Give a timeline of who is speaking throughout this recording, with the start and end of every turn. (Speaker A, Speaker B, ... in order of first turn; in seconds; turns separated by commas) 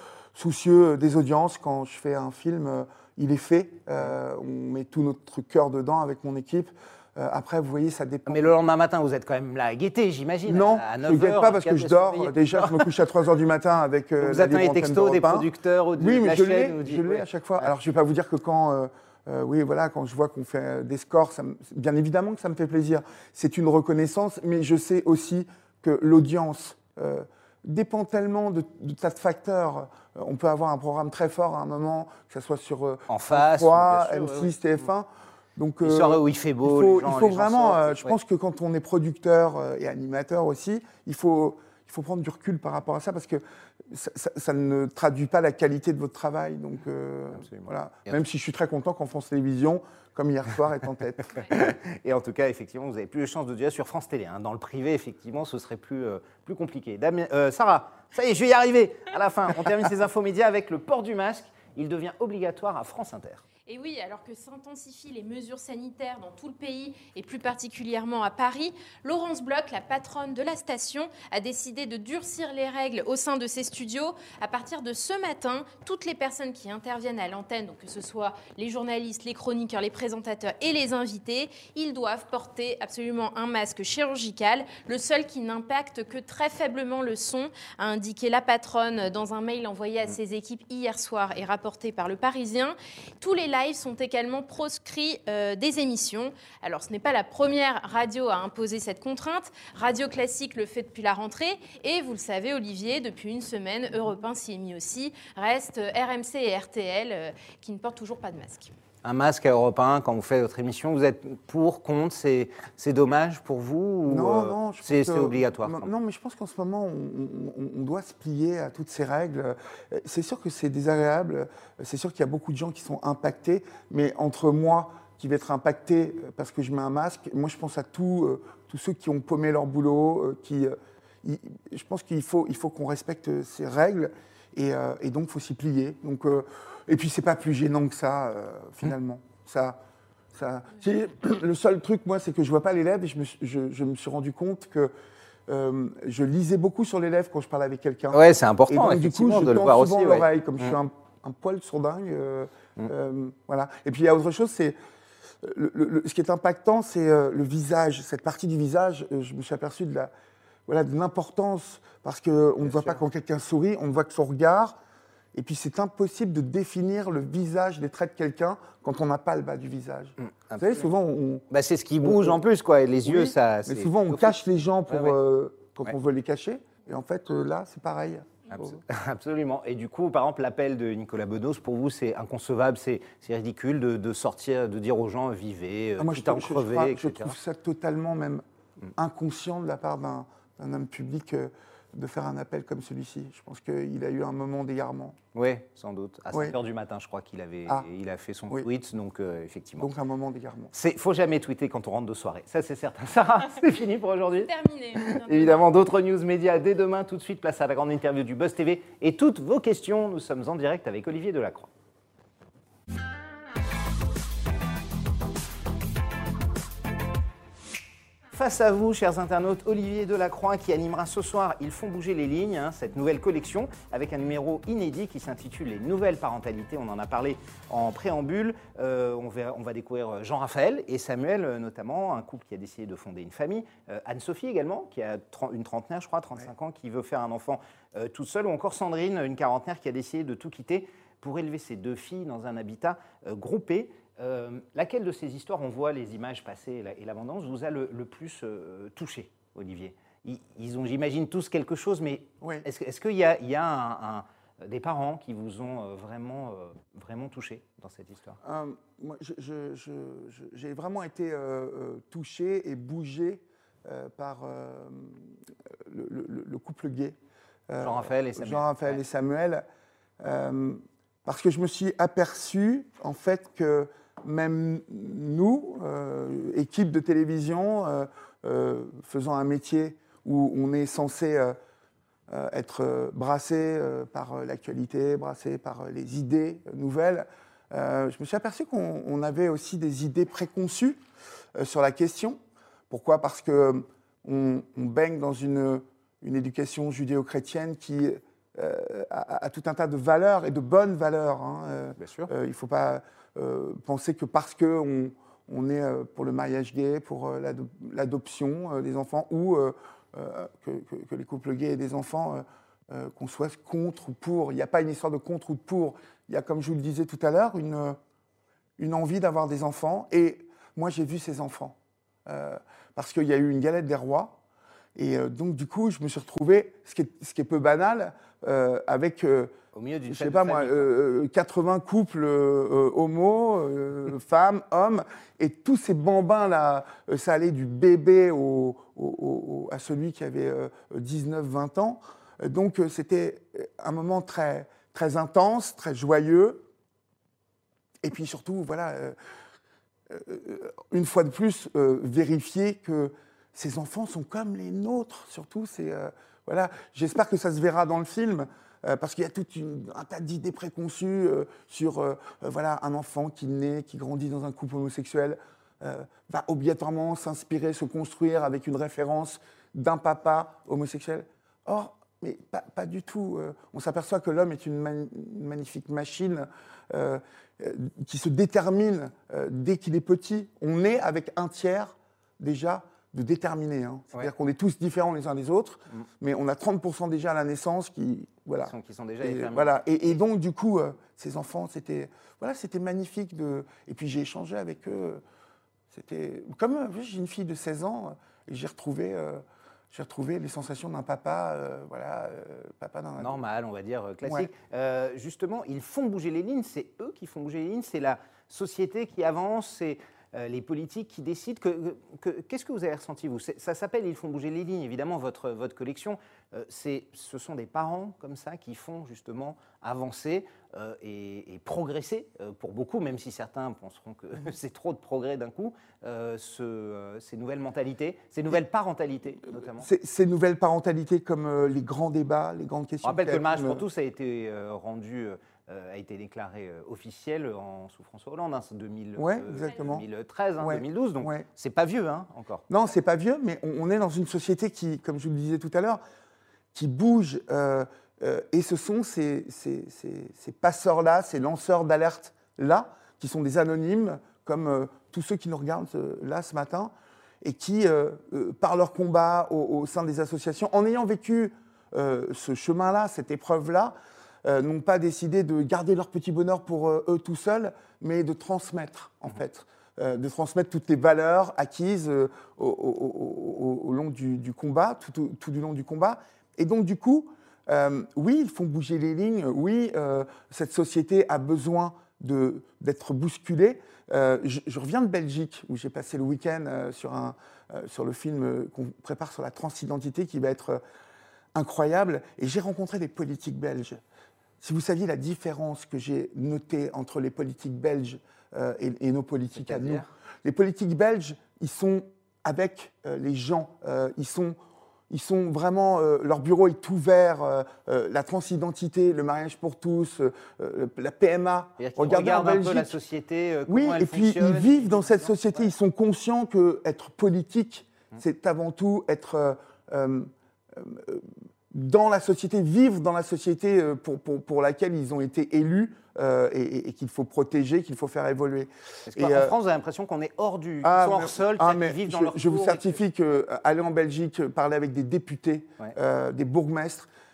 Speaker A: 0.3-8.5, Speaker B: 8.3-13.0, Speaker A: 10.5-51.7, Speaker B: 14.2-17.7, Speaker B: 33.1-34.6, Speaker B: 35.8-38.1, Speaker B: 47.3-48.2, Speaker B: 51.4-63.4, Speaker C: 63.6-108.7, Speaker B: 109.0-115.9, Speaker A: 114.1-139.8, Speaker A: 140.3-144.9, Speaker A: 145.5-154.8, Speaker B: 148.1-150.8, Speaker A: 155.4-160.1, Speaker A: 160.7-164.8, Speaker B: 162.6-163.0, Speaker A: 165.3-171.4, Speaker B: 170.2-170.9, Speaker B: 171.5-174.3, Speaker A: 172.0-172.4, Speaker A: 173.1-178.8, Speaker B: 174.9-175.2, Speaker B: 178.6-187.4, Speaker A: 186.0-188.4, Speaker A: 189.0-195.2, Speaker B: 195.3-199.9, Speaker A: 196.3-196.6, Speaker A: 199.8-200.7, Speaker B: 200.7-211.7, Speaker C: 204.4-205.7, Speaker B: 218.3-258.4, Speaker A: 252.4-252.7, Speaker A: 258.4-267.2, Speaker A: 267.7-269.6, Speaker B: 267.8-269.0, Speaker A: 270.2-281.6, Speaker A: 282.3-291.0, Speaker A: 291.6-292.4, Speaker A: 292.9-318.0, Speaker B: 302.0-302.3, Speaker A: 318.8-324.4, Speaker A: 324.9-329.6, Speaker B: 329.7-330.9, Speaker A: 330.1-346.6, Speaker A: 348.0-349.1, Speaker A: 350.1-395.2, Speaker B: 388.6-389.8, Speaker A: 395.9-403.4, Speaker B: 403.2-429.9, Speaker A: 404.2-404.5, Speaker A: 429.7-433.9, Speaker B: 433.0-442.6, Speaker A: 439.2-440.1, Speaker C: 439.6-439.9, Speaker A: 440.6-441.5, Speaker A: 442.7-446.0, Speaker A: 446.7-490.8, Speaker A: 491.6-494.0, Speaker A: 494.6-504.6, Speaker B: 499.6-500.1, Speaker A: 505.1-513.0, Speaker B: 511.8-515.6, Speaker A: 513.7-529.5, Speaker B: 529.1-533.0, Speaker A: 530.8-537.1